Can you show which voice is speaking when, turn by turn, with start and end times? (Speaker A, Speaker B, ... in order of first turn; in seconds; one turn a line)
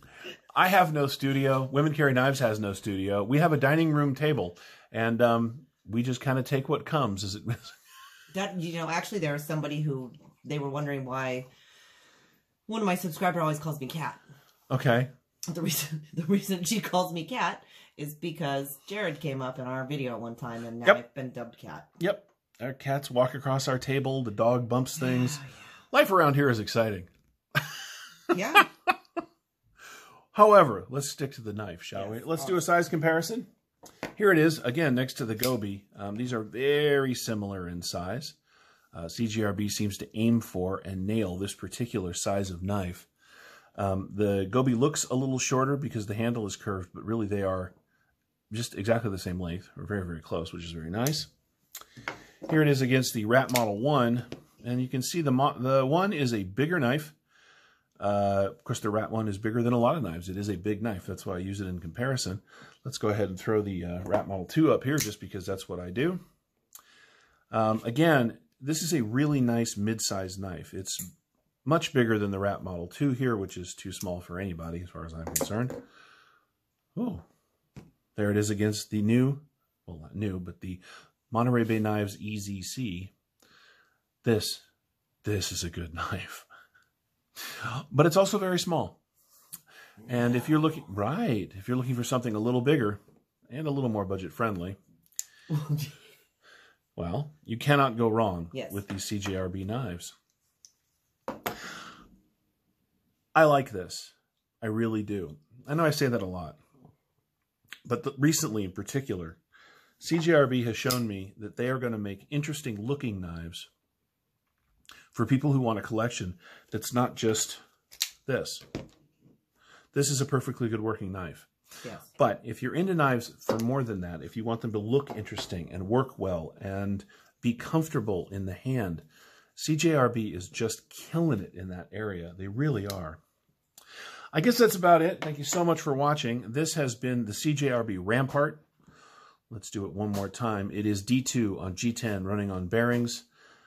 Speaker A: 0.5-7.8
Speaker B: 8.3-11.5
Speaker B: 12.7-14.2
Speaker A: 14.7-15.1
Speaker B: 15.5-21.9
Speaker A: 22.0-27.1
Speaker B: 25.0-25.5
Speaker B: 28.3-28.6
Speaker A: 30.3-33.5
Speaker B: 31.9-32.5
Speaker A: 34.1-38.4
Speaker A: 38.9-43.1
Speaker A: 43.8-47.7
Speaker A: 48.5-51.3
Speaker A: 52.5-57.1
Speaker A: 58.0-66.2
Speaker A: 67.5-71.0
Speaker A: 71.6-75.8
Speaker A: 76.9-77.2
Speaker A: 78.2-83.1
Speaker A: 84.2-84.7
Speaker A: 85.2-86.5
Speaker A: 87.5-89.0
Speaker A: 90.0-94.8
Speaker B: 95.5-95.9
Speaker A: 97.0-100.1
Speaker B: 98.5-98.8
Speaker A: 103.3-106.6
Speaker A: 107.8-109.4
Speaker A: 110.0-113.7
Speaker A: 115.1-117.6
Speaker A: 118.2-118.6
Speaker A: 119.9-121.5
Speaker A: 122.1-133.2
Speaker A: 134.3-138.7
Speaker A: 139.5-143.2